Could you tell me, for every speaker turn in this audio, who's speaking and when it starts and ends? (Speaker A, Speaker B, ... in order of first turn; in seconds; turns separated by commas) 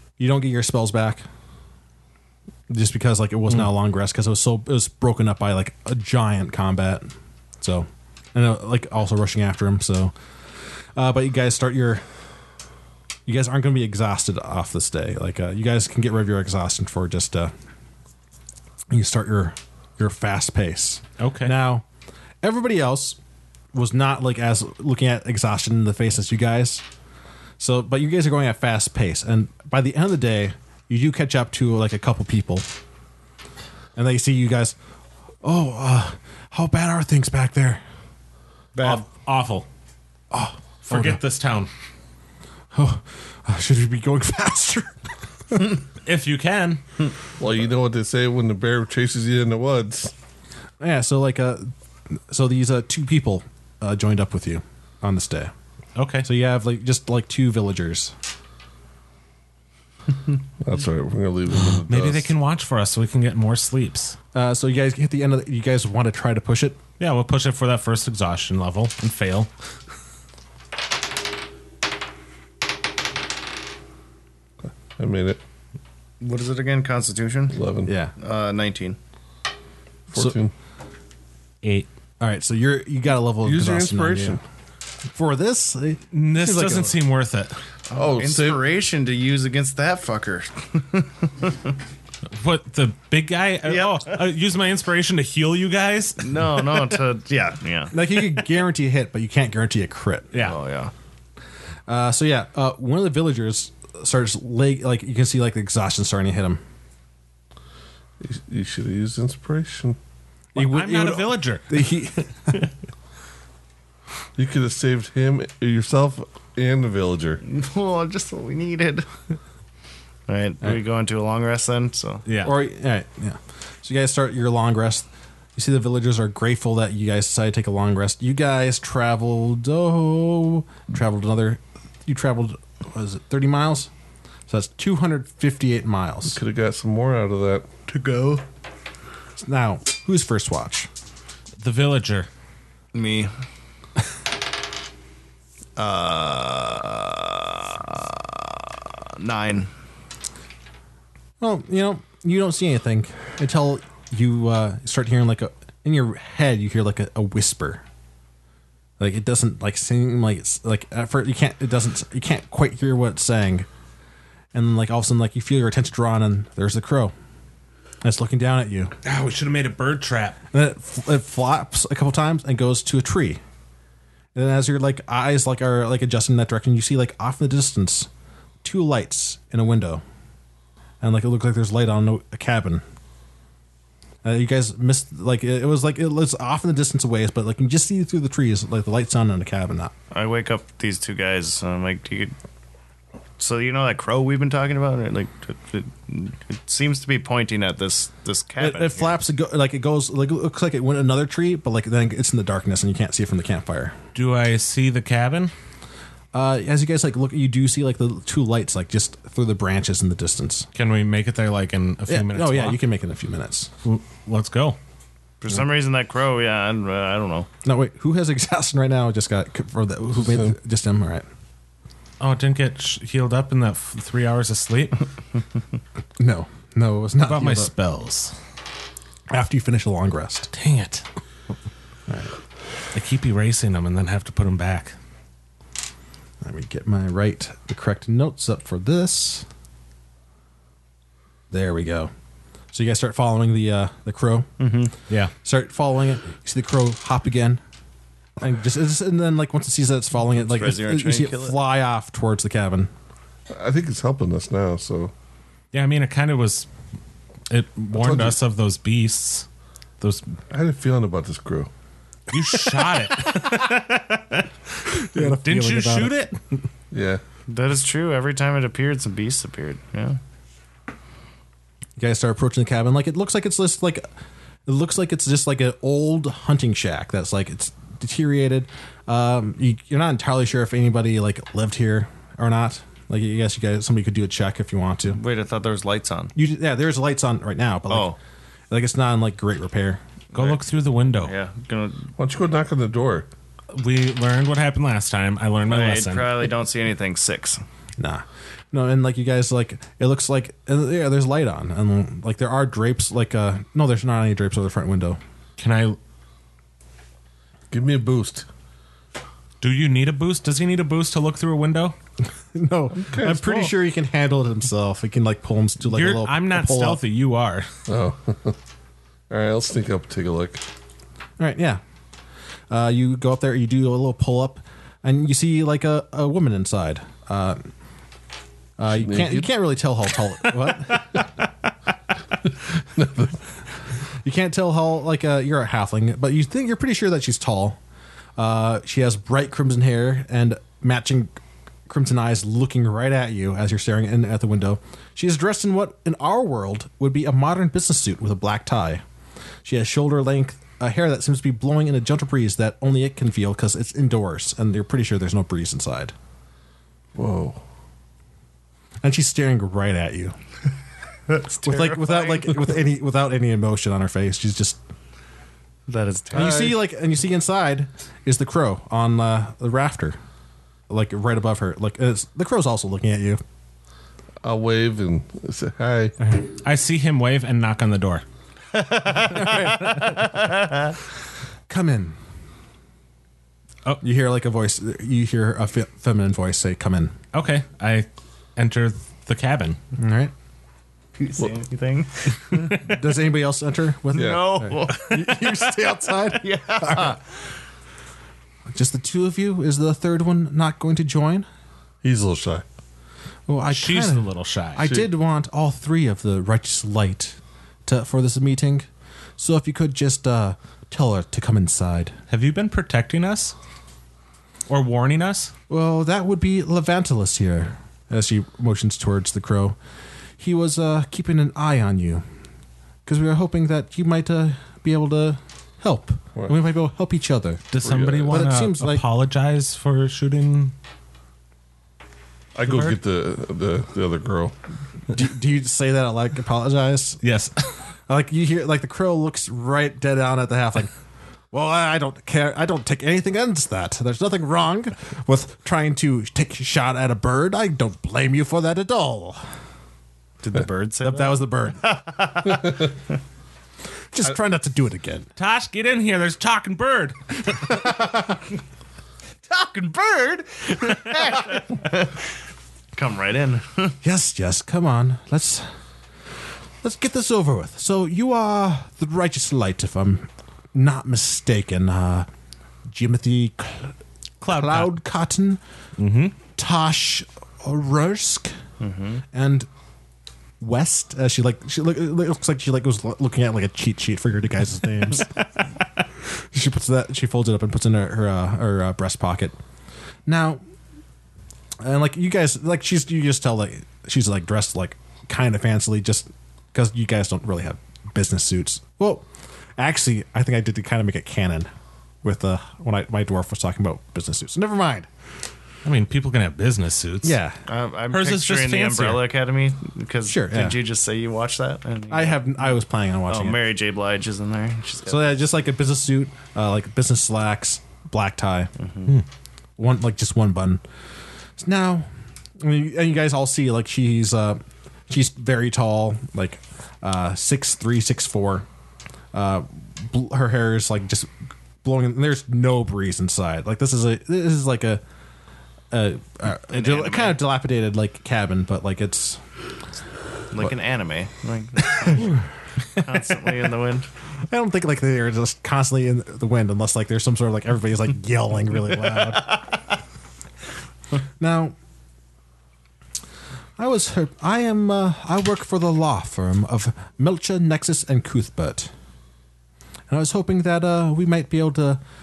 Speaker A: 0.2-1.2, Speaker A: 2.7-10.1, Speaker A: 10.9-12.0, Speaker A: 13.3-17.5, Speaker A: 18.9-21.8, Speaker B: 21.2-21.5, Speaker A: 22.4-23.2, Speaker A: 23.7-26.8, Speaker A: 27.6-32.7, Speaker A: 34.0-34.8, Speaker A: 35.4-37.8, Speaker C: 38.7-39.0, Speaker B: 38.8-39.7, Speaker A: 40.3-41.2, Speaker B: 40.8-41.7, Speaker A: 42.7-45.7, Speaker B: 46.0-46.8, Speaker D: 47.4-50.1, Speaker A: 50.8-55.5, Speaker B: 56.0-56.3, Speaker A: 56.2-58.1, Speaker D: 60.6-62.3, Speaker B: 61.8-64.2, Speaker A: 64.3-66.8, Speaker B: 67.0-69.5, Speaker D: 74.6-75.4, Speaker C: 76.2-77.6, Speaker D: 77.5-77.9, Speaker A: 77.9-78.1, Speaker C: 78.2-79.0, Speaker D: 80.1-80.5, Speaker A: 82.2-84.4, Speaker D: 83.4-84.4, Speaker A: 85.1-87.0, Speaker B: 86.1-87.6, Speaker D: 87.9-88.6, Speaker C: 87.9-91.7, Speaker B: 92.3-96.4, Speaker C: 93.7-94.1, Speaker C: 96.2-98.4, Speaker A: 97.9-100.3, Speaker B: 100.3-100.6, Speaker C: 100.3-100.9, Speaker A: 101.9-106.6, Speaker D: 108.2-110.0, Speaker B: 110.5-111.9, Speaker A: 110.5-112.7, Speaker D: 114.3-117.4, Speaker C: 117.4-119.1, Speaker C: 120.3-122.2, Speaker B: 122.2-122.5, Speaker A: 122.4-133.9, Speaker A: 134.5-136.4, Speaker D: 136.3-137.7, Speaker C: 137.9-138.4, Speaker A: 139.4-140.9, Speaker B: 141.6-142.3, Speaker C: 142.9-143.3, Speaker C: 145.8-149.7, Speaker A: 151.4-157.8, Speaker A: 159.0-163.7, Speaker A: 164.5-167.1, Speaker A: 168.0-168.9, Speaker B: 169.0-170.4, Speaker A: 170.5-173.4, Speaker A: 174.3-178.1, Speaker A: 178.6-180.0, Speaker A: 181.0-182.8, Speaker A: 184.2-189.9, Speaker C: 190.1-192.3, Speaker C: 193.4-199.2, Speaker A: 198.6-203.9, Speaker B: 204.1-205.5, Speaker A: 206.3-210.7, Speaker B: 210.7-212.8, Speaker A: 212.1-213.7, Speaker B: 213.8-214.8, Speaker C: 215.4-217.5, Speaker A: 217.6-221.2, Speaker D: 220.2-220.5, Speaker B: 222.2-225.1, Speaker A: 226.2-227.7, Speaker B: 227.2-228.3, Speaker A: 229.3-230.5, Speaker B: 230.5-231.0, Speaker A: 232.1-232.3, Speaker B: 232.9-234.9, Speaker A: 236.4-239.5, Speaker A: 241.5-242.1, Speaker A: 242.7-244.5, Speaker C: 244.6-244.9, Speaker A: 245.4-247.6, Speaker A: 248.4-252.9, Speaker C: 250.3-251.6, Speaker D: 253.5-255.1, Speaker B: 255.7-256.7, Speaker B: 257.5-259.4, Speaker D: 257.9-258.4, Speaker B: 260.0-260.4, Speaker D: 260.5-261.7, Speaker B: 262.3-266.4, Speaker A: 263.2-263.7, Speaker A: 264.9-266.1, Speaker D: 266.9-267.2, Speaker C: 267.5-270.2, Speaker A: 272.0-274.1, Speaker A: 274.7-285.2, Speaker C: 285.1-286.3, Speaker A: 286.3-288.1, Speaker C: 287.9-288.2, Speaker A: 288.7-290.0, Speaker C: 290.3-290.6, Speaker B: 290.3-291.3, Speaker C: 291.2-292.1, Speaker D: 292.2-293.3, Speaker B: 293.7-296.5, Speaker C: 295.7-297.6, Speaker A: 298.0-305.2, Speaker B: 305.6-306.0, Speaker D: 307.7-308.5, Speaker B: 309.6-311.9, Speaker A: 312.5-317.0, Speaker D: 312.9-313.7, Speaker B: 315.8-317.7, Speaker D: 317.9-318.6, Speaker D: 319.3-320.6, Speaker A: 321.4-321.8, Speaker A: 322.7-327.7, Speaker A: 328.8-331.2, Speaker D: 328.9-329.5, Speaker B: 330.4-331.2, Speaker D: 332.9-333.4, Speaker A: 334.2-337.8, Speaker A: 338.4-341.3, Speaker A: 341.9-349.0, Speaker A: 349.6-356.1, Speaker D: 357.1-357.6, Speaker A: 359.0-360.4, Speaker C: 361.3-362.8, Speaker A: 361.6-364.8, Speaker C: 365.9-366.7, Speaker A: 366.3-370.2, Speaker D: 366.3-366.7, Speaker A: 370.9-373.4, Speaker D: 374.4-376.2, Speaker B: 376.6-378.2, Speaker C: 378.7-380.9, Speaker A: 379.5-379.8, Speaker A: 381.7-382.1, Speaker A: 384.0-387.1, Speaker B: 387.3-389.8, Speaker A: 390.0-390.3, Speaker C: 391.2-392.9, Speaker A: 392.7-397.2, Speaker C: 394.1-397.2, Speaker D: 394.1-394.5, Speaker A: 398.7-401.5, Speaker D: 402.0-402.6, Speaker A: 403.5-408.9, Speaker B: 403.7-404.9, Speaker A: 409.4-412.1, Speaker B: 412.3-413.5, Speaker B: 414.7-415.5, Speaker A: 415.7-419.8, Speaker A: 420.4-422.2, Speaker A: 423.1-427.6, Speaker B: 427.7-430.7, Speaker D: 427.8-428.4, Speaker A: 428.3-429.0, Speaker D: 432.5-434.5, Speaker B: 432.6-432.9, Speaker A: 435.1-437.2, Speaker B: 437.2-437.8, Speaker A: 438.1-440.9, Speaker A: 441.5-449.4, Speaker C: 450.4-453.0, Speaker A: 451.0-451.9, Speaker A: 454.1-455.3, Speaker B: 455.4-457.8, Speaker C: 459.5-462.2, Speaker C: 462.9-463.9, Speaker A: 464.0-465.7, Speaker A: 466.8-472.3, Speaker A: 472.9-473.9, Speaker B: 474.4-474.9, Speaker A: 474.5-475.6, Speaker B: 476.0-476.4, Speaker A: 476.6-478.5, Speaker C: 478.8-479.2, Speaker A: 479.3-479.7, Speaker A: 480.6-485.5, Speaker A: 486.5-489.6, Speaker A: 490.2-490.6, Speaker A: 491.8-499.2, Speaker A: 499.8-501.7, Speaker A: 502.2-505.1, Speaker B: 505.8-507.4, Speaker A: 507.2-507.6, Speaker C: 507.7-512.6, Speaker B: 508.1-509.3, Speaker A: 510.2-510.8, Speaker A: 512.1-513.6, Speaker C: 513.3-515.4, Speaker A: 515.1-518.7, Speaker C: 518.8-519.1, Speaker A: 519.8-520.8, Speaker A: 521.6-522.1, Speaker A: 522.6-528.7, Speaker A: 529.3-531.3, Speaker A: 531.8-535.0, Speaker A: 535.9-539.4, Speaker C: 536.7-537.4, Speaker C: 540.5-542.4, Speaker A: 541.8-542.3, Speaker C: 542.9-544.1, Speaker A: 543.0-543.5, Speaker A: 544.5-549.6, Speaker A: 551.4-551.7, Speaker A: 553.8-558.9, Speaker A: 560.1-562.0